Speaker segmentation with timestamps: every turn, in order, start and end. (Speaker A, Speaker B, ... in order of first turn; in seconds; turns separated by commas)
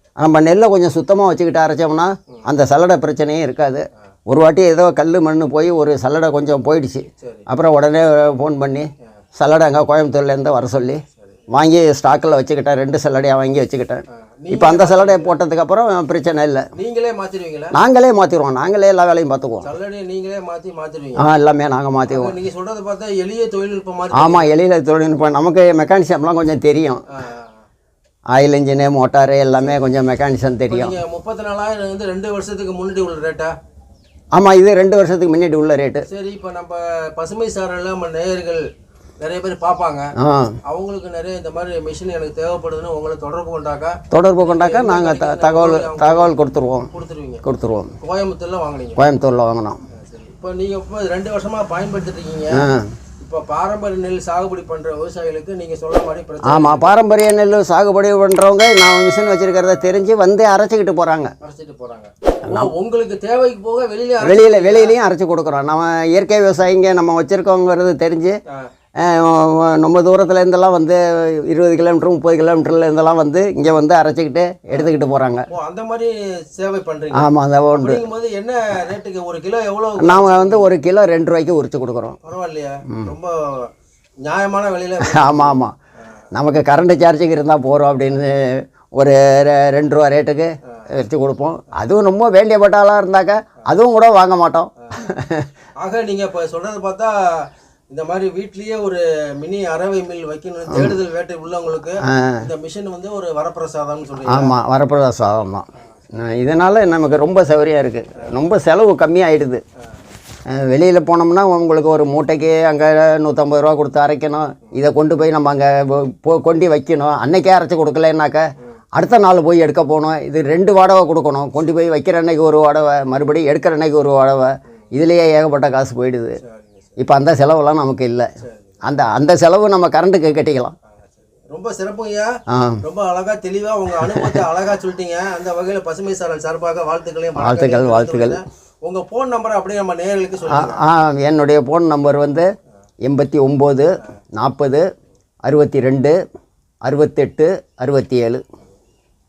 Speaker A: 0.2-16.6, Speaker B: 7.2-7.5, Speaker B: 14.1-15.4, Speaker B: 16.7-17.8, Speaker A: 17.7-19.7, Speaker B: 19.6-21.2, Speaker A: 21.2-22.3, Speaker B: 22.1-24.5, Speaker A: 24.1-27.0, Speaker B: 27.1-27.6, Speaker A: 28.3-31.0, Speaker B: 30.7-33.5, Speaker A: 34.3-36.0, Speaker B: 36.1-38.6, Speaker B: 39.2-40.1, Speaker A: 40.2-40.5, Speaker B: 40.6-47.4, Speaker A: 44.1-46.9, Speaker A: 47.4-47.9, Speaker B: 48.0-49.0, Speaker A: 49.0-49.8, Speaker B: 49.9-52.6, Speaker A: 52.5-52.9, Speaker B: 53.2-56.9, Speaker A: 56.5-61.3, Speaker B: 61.4-65.0, Speaker A: 62.5-62.7, Speaker A: 64.2-68.3, Speaker A: 69.0-75.4, Speaker B: 75.5-80.7, Speaker A: 77.1-78.0, Speaker A: 80.0-82.2, Speaker B: 82.2-83.7, Speaker B: 84.2-85.6, Speaker A: 85.0-85.7, Speaker A: 86.3-95.5, Speaker B: 95.8-97.1, Speaker B: 97.9-104.5, Speaker A: 100.7-101.0, Speaker A: 102.0-102.4, Speaker A: 104.2-105.6, Speaker A: 106.2-109.6, Speaker A: 110.5-126.3, Speaker B: 126.4-126.9, Speaker A: 127.0-128.3, Speaker B: 128.4-128.8, Speaker A: 128.8-130.7, Speaker B: 130.9-132.3, Speaker A: 132.5-132.8, Speaker B: 132.8-140.8, Speaker A: 137.3-138.4, Speaker A: 140.5-142.5, Speaker A: 143.0-144.8, Speaker A: 145.4-146.2, Speaker A: 146.8-148.4